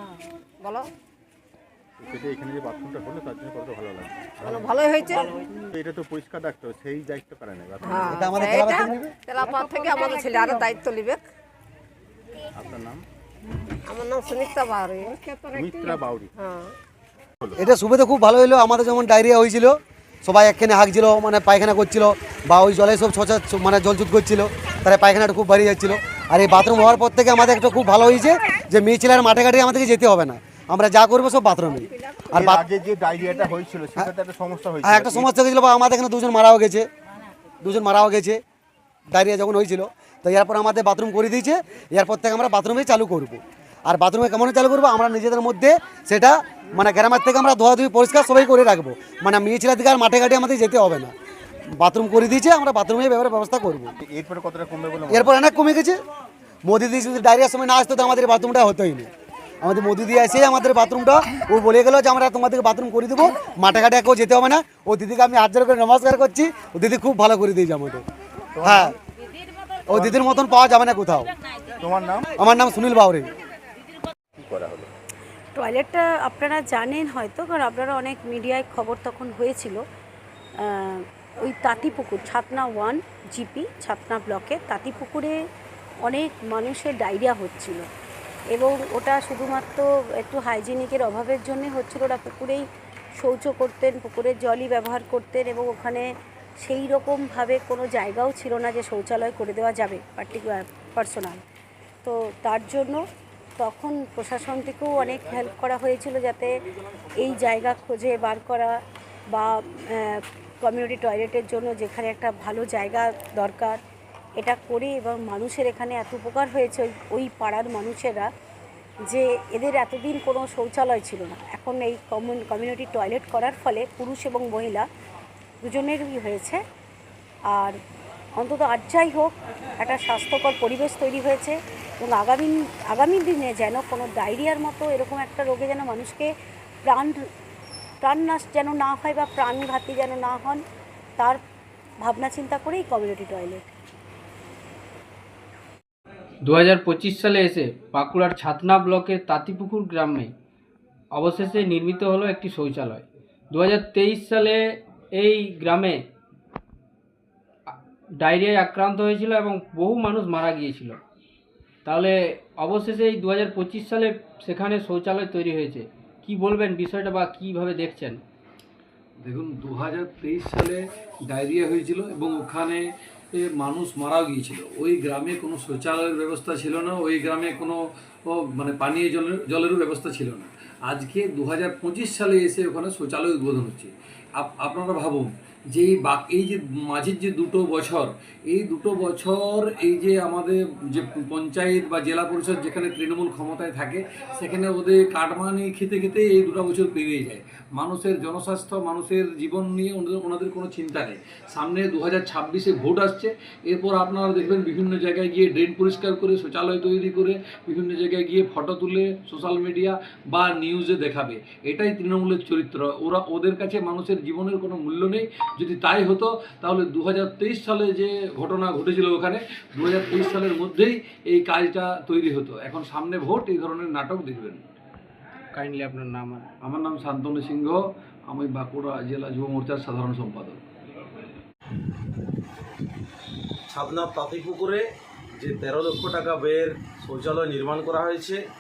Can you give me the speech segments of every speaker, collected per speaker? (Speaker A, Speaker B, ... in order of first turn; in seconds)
Speaker A: 0.6-0.9, 4.4-5.5, 7.8-11.2, 13.8-16.8
Speaker B: 2.0-4.7, 5.7-8.3, 12.6-13.0, 15.5-16.3, 32.3-35.3, 54.0-55.3, 68.6-68.9, 71.8-72.3, 74.4-74.9
Speaker C: 8.1-9.1, 17.6-32.7, 34.8-36.9, 37.6-38.4, 39.1-51.1, 51.7-53.9, 55.1-56.0, 56.7-59.1, 59.6-68.0, 68.6-69.0, 69.9-71.3, 72.4-73.3
Speaker D: 75.5-79.8, 80.6-85.4, 86.0-87.9, 88.5-92.7, 93.2-96.1, 96.6-101.4, 102.0-103.0, 103.6-106.6, 107.2-113.8, 114.4-118.3, 119.1-124.9, 125.6-126.6, 127.5-127.8, 128.4-136.3, 136.9-137.2, 138.0-140.6, 142.0-143.7
Speaker E: 146.4-150.3, 151.2-154.6, 155.1-156.1, 158.2-161.0, 161.8-168.2, 225.5-226.5
Speaker F: 169.2-224.6, 226.6-230.6
Speaker G: 233.7-234.9, 235.4-238.4